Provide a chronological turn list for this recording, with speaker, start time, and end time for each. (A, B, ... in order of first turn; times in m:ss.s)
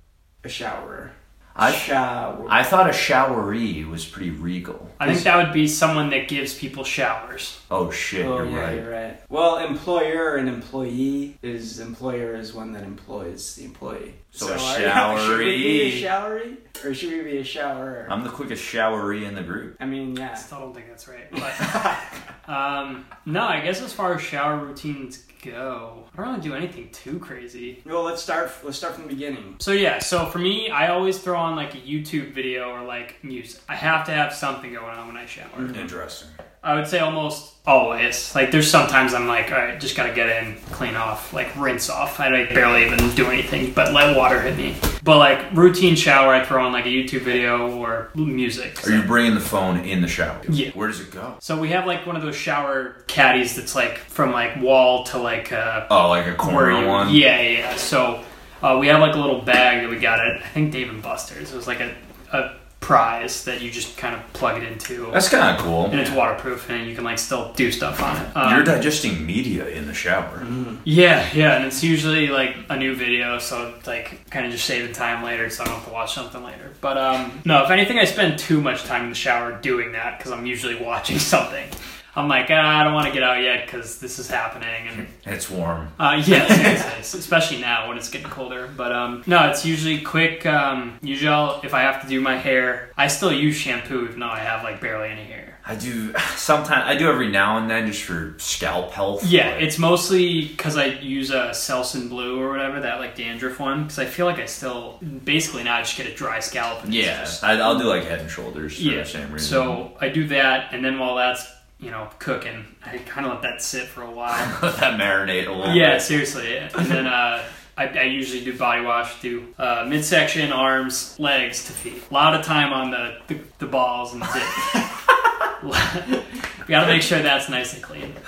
0:00.4-0:02.5 A
0:01.5-0:01.8 B
0:02.4-0:05.0 B
0:05.0-0:07.6 C
0:05.0-0:05.2 A
0:07.7-0:08.8 B
0:08.2-0:18.1 A
0:14.3-0:16.1 B
0:18.1-0:19.7 B
0:19.8-0:20.4 A
0:20.4-0:21.8 C
0:21.6-0:22.0 A
0:22.4-0:27.8 C
0:27.8-0:29.6 A
0:29.6-0:35.8 C
0:35.6-0:35.8 A
0:35.7-0:36.4 B
0:36.6-0:49.1 C
0:48.8-0:51.4 B
0:50.5-0:50.8 C
0:51.4-1:05.2 C
0:55.9-0:57.2 B
1:05.1-1:06.1 B
1:05.9-1:08.8 C
1:08.4-1:10.4 B
1:10.4-1:10.8 A
1:10.8-1:25.1 C
1:24.9-1:26.8 B
1:26.0-1:35.6 C
1:35.6-1:39.7 B
1:39.2-1:47.4 C
1:46.8-1:49.8 B
1:48.8-1:54.6 C
1:54.3-1:56.1 B
1:55.6-2:04.7 C
2:05.6-2:08.2 C